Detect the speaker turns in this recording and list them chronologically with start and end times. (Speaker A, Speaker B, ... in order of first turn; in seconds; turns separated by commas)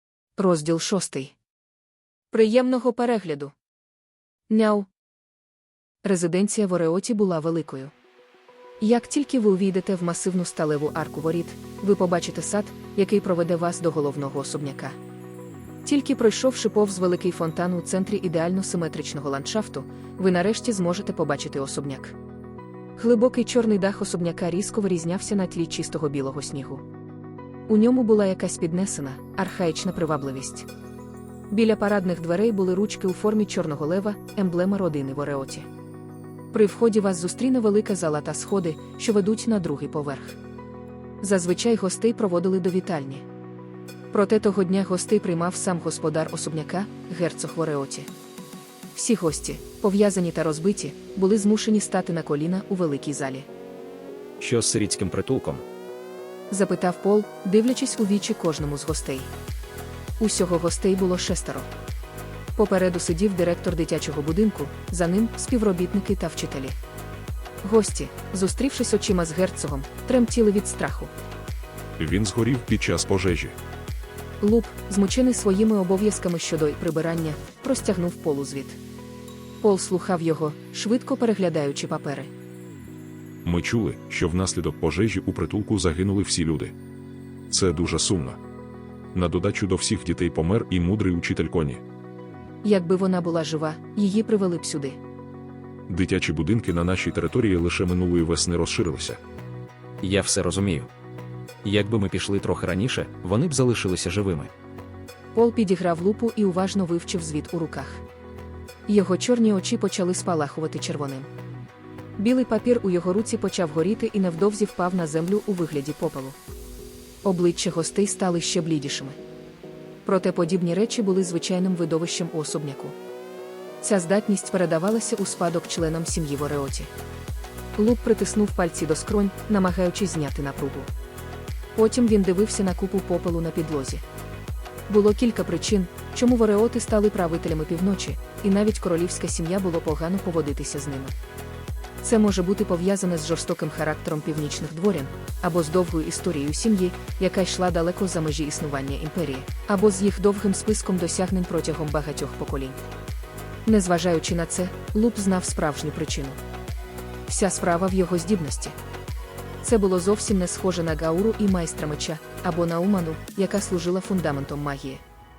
Speaker A: 0.4-1.4, Speaker A: 2.3-3.5, Speaker A: 4.5-4.9, Speaker A: 6.0-7.9, Speaker A: 8.8-14.9, Speaker A: 15.8-22.1, Speaker A: 23.0-26.8, Speaker A: 27.7-30.7, Speaker A: 31.5-35.7, Speaker A: 36.5-40.4, Speaker A: 41.2-43.2, Speaker A: 44.1-48.1, Speaker A: 48.9-53.5, Speaker B: 54.4-55.6, Speaker A: 56.5-59.3, Speaker A: 60.2-61.7, Speaker A: 62.5-66.8, Speaker A: 67.6-71.1, Speaker C: 72.0-73.5, Speaker A: 74.4-78.8, Speaker A: 79.6-82.3, Speaker C: 83.4-86.7, Speaker C: 87.5-88.4, Speaker C: 89.1-91.8, Speaker A: 92.6-95.0, Speaker C: 95.9-99.2, Speaker B: 100.0-100.9, Speaker B: 101.6-104.5, Speaker A: 105.3-108.0, Speaker A: 108.9-111.3, Speaker A: 112.2-116.4, Speaker A: 117.2-119.2, Speaker A: 120.0-123.0, Speaker A: 123.8-126.9, Speaker A: 127.8-130.9, Speaker A: 131.8-134.0, Speaker A: 134.9-141.1, Speaker A: 142.0-152.8, Speaker A: 153.7-156.4, Speaker A: 157.3-158.8, Speaker A: 159.6-165.0